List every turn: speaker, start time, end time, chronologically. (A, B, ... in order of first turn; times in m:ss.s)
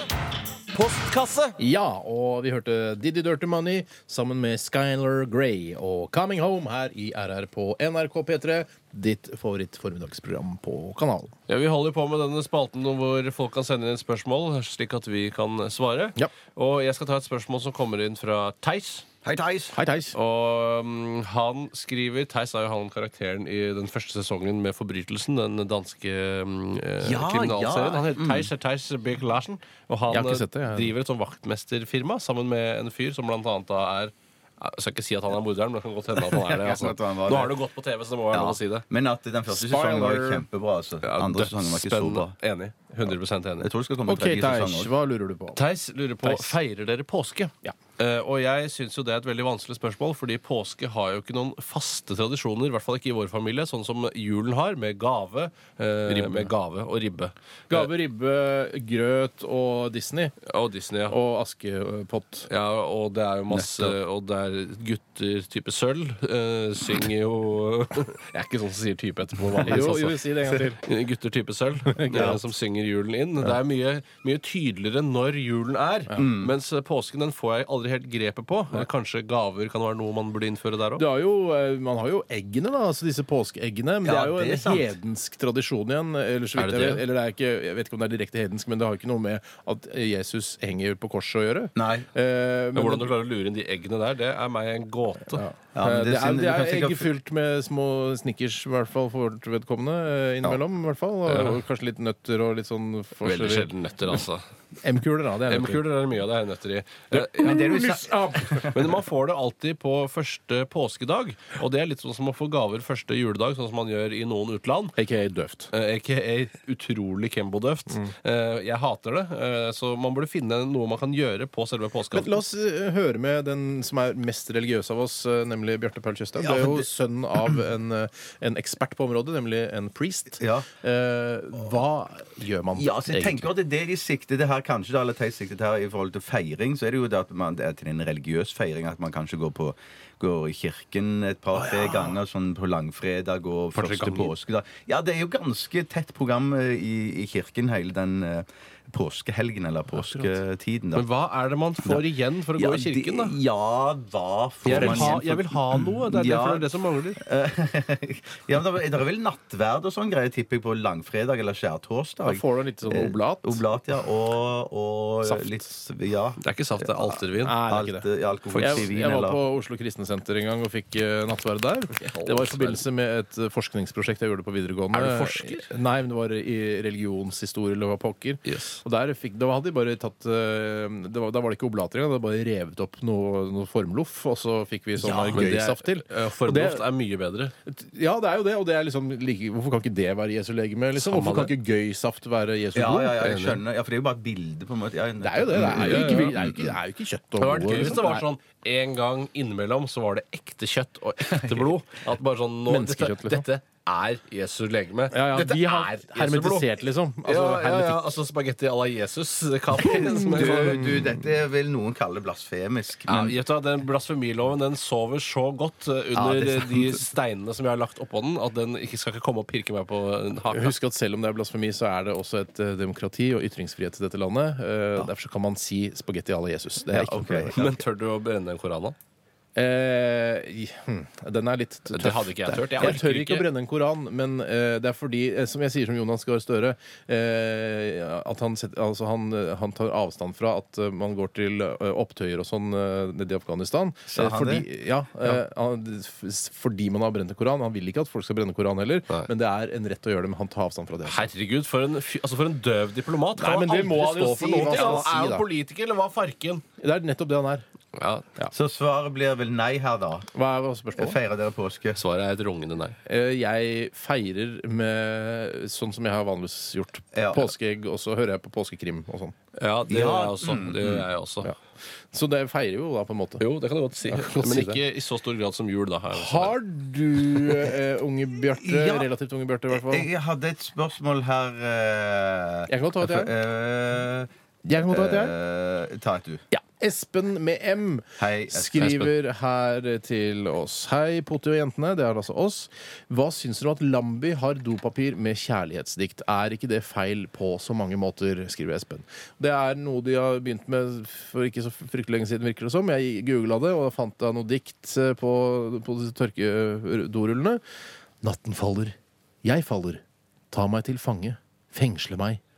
0:00.7-0:01.6 A
0:01.6-0:11.3 B
0:11.5-0:19.0 A
0:19.2-0:19.8 C
0:19.7-0:20.1 B
0:20.1-0:38.8 A
0:27.0-0:28.5 C
0:30.1-0:30.9 B
0:36.1-0:37.6 C
0:38.3-0:42.3 C
0:39.5-0:40.4 B
0:41.0-0:43.7 A
0:43.6-0:44.9 C
0:44.1-0:45.6 B
0:45.6-0:57.9 A
0:46.2-0:46.6 B
0:56.1-0:56.5 B
0:57.7-1:00.4 B
1:00.4-1:01.2 A
1:01.1-1:02.5 B
1:02.5-1:21.0 A
1:03.5-1:03.9 C
1:09.6-1:10.8 B
1:11.9-1:12.4 B
1:16.2-1:16.5 C
1:21.0-1:33.1 B
1:24.0-1:24.9 C
1:26.6-1:27.0 A
1:31.8-1:32.0 C
1:32.7-1:35.4 A
1:35.3-1:43.7 B
1:35.7-1:37.1 C
1:41.3-1:41.6 A
1:43.2-1:44.4 A
1:44.8-1:45.8 B
1:45.5-1:47.8 A
1:47.1-1:48.7 B
1:47.4-1:48.9 C
1:48.7-1:54.9 A
1:55.0-1:55.7 B
1:55.7-2:02.4 A
2:02.1-2:13.5 B
2:06.4-2:06.8 C
2:10.4-2:10.6 C
2:12.8-2:31.0 C
2:23.8-2:24.3 A
2:30.0-2:30.3 B
2:30.9-2:33.4 A
2:32.6-2:49.4 C
2:34.6-2:35.2 B
2:34.6-2:37.2 A
2:42.2-2:43.6 B
2:45.2-2:45.6 B
2:46.4-2:47.6 A
2:47.4-3:06.8 B
2:48.5-2:48.9 A
2:51.9-2:52.8 A
2:54.9-2:55.7 A
2:58.4-2:58.8 A
3:05.0-3:05.7 C
3:05.3-3:07.5 A
3:07.6-3:13.3 B
3:11.0-3:11.5 A
3:12.7-3:16.7 C
3:13.2-3:13.6 A
3:15.2-3:18.2 B
3:15.6-3:16.4 A
3:17.4-3:26.7 A
3:21.3-3:21.7 C
3:22.7-3:23.4 B
3:25.1-3:28.1 B
3:27.2-3:31.0 A
3:29.8-3:33.4 C
3:29.8-3:30.9 B
3:33.1-3:40.7 A
3:36.1-3:37.0 C
3:40.5-3:47.6 B
3:46.9-3:47.8 C
3:47.5-3:48.9 A
3:49.6-4:11.3 B
3:51.9-3:53.5 A
4:04.1-4:04.6 C
4:11.0-4:16.6 A
4:13.4-4:15.4 B
4:14.6-4:15.1 C
4:16.8-4:17.6 B
4:18.0-4:18.3 A
4:18.5-4:20.3 C
4:20.3-4:21.2 B
4:21.0-4:22.0 C
4:22.0-4:23.0 A
4:23.0-4:29.3 B
4:27.1-4:27.5 C
4:29.5-4:31.5 A
4:29.9-4:31.0 C
4:32.1-4:33.4 B
4:33.4-4:36.5 A
4:34.1-4:34.8 B
4:36.1-4:40.1 B
4:38.6-4:39.1 C
4:39.7-4:44.3 C
4:42.7-4:43.3 B
4:44.6-4:45.3 B
4:44.9-4:46.4 C
4:46.5-5:07.6 B
4:48.2-4:48.9 C
4:48.8-4:49.1 A
5:08.2-5:12.4 B